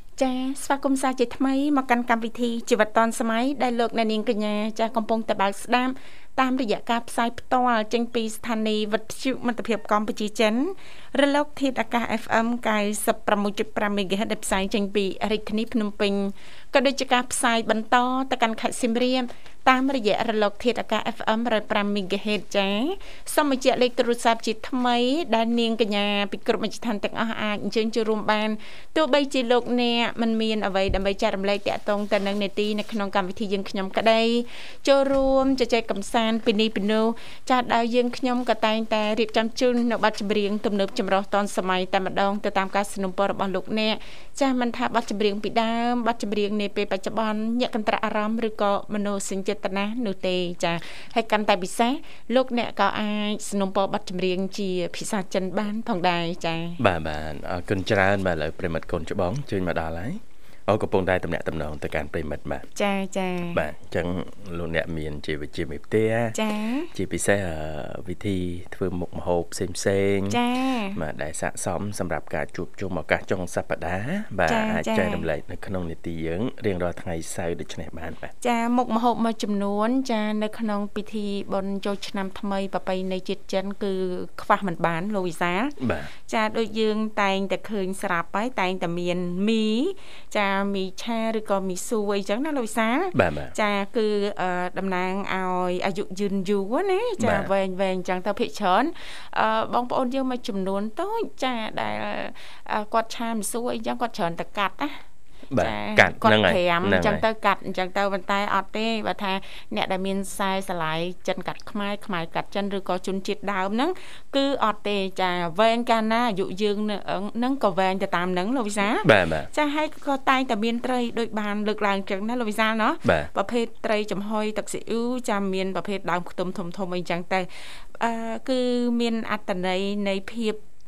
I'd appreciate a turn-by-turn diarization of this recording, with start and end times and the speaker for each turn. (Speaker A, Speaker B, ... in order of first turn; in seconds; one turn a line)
Speaker A: 0.2-56.8
Speaker B: 56.8-62.6
Speaker A: 62.8-63.6
Speaker B: 63.5-66.3
Speaker A: 66.3-66.9
Speaker B: 66.9-70.4
Speaker A: 70.3-71.0
Speaker B: 71.0-78.3
Speaker A: 74.5-75.2
Speaker A: 78.4-105.0
Speaker B: 85.8-86.1
Speaker B: 93.1-93.5
Speaker B: 97.2-97.5
Speaker B: 105.5-107.2
Speaker A: 105.6-130.6
Speaker B: 119.0-119.5
Speaker B: 123.0-123.3